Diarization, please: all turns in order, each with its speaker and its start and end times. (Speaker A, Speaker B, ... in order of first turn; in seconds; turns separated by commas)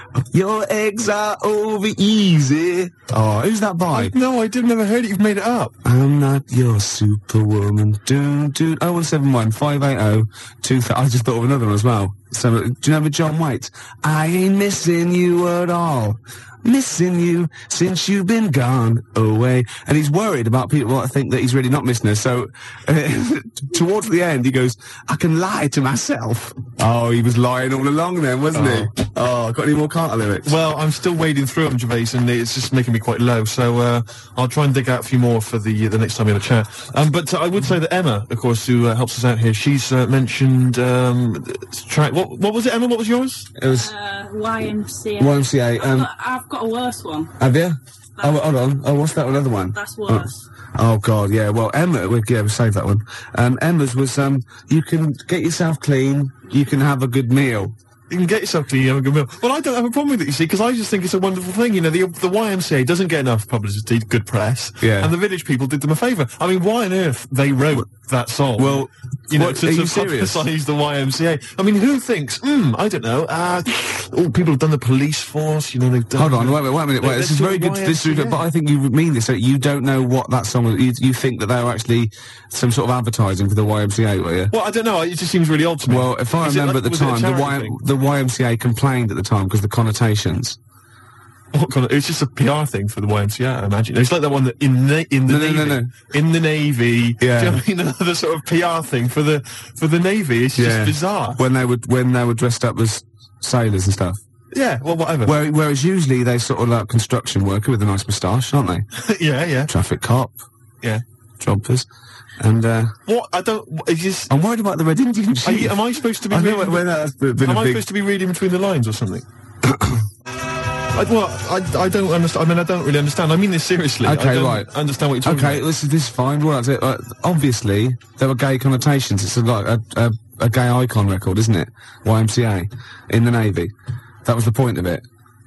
Speaker A: 0.2-4.1, Speaker B: 3.9-5.8, Speaker A: 5.8-30.6, Speaker B: 28.5-28.9, Speaker B: 30.4-43.5, Speaker A: 43.6-43.9, Speaker C: 43.6-47.3, Speaker A: 45.2-46.1, Speaker A: 47.4-57.7, Speaker C: 49.8-50.4, Speaker B: 58.1-78.4, Speaker A: 64.8-65.1, Speaker A: 68.6-70.4, Speaker A: 76.2-84.5, Speaker B: 84.5-87.8, Speaker A: 85.9-90.6, Speaker B: 91.5-101.4, Speaker A: 95.3-96.0, Speaker A: 97.2-97.6, Speaker A: 100.6-104.2, Speaker B: 104.5-105.4, Speaker A: 105.2-108.9, Speaker B: 108.9-109.7, Speaker A: 109.7-110.4, Speaker A: 111.4-111.9, Speaker A: 112.4-113.0, Speaker B: 113.1-114.3, Speaker A: 114.3-117.8, Speaker B: 115.4-116.9, Speaker B: 117.4-119.2, Speaker A: 119.6-120.1, Speaker B: 120.9-125.7, Speaker A: 124.0-124.7, Speaker A: 125.2-133.7, Speaker A: 134.2-135.0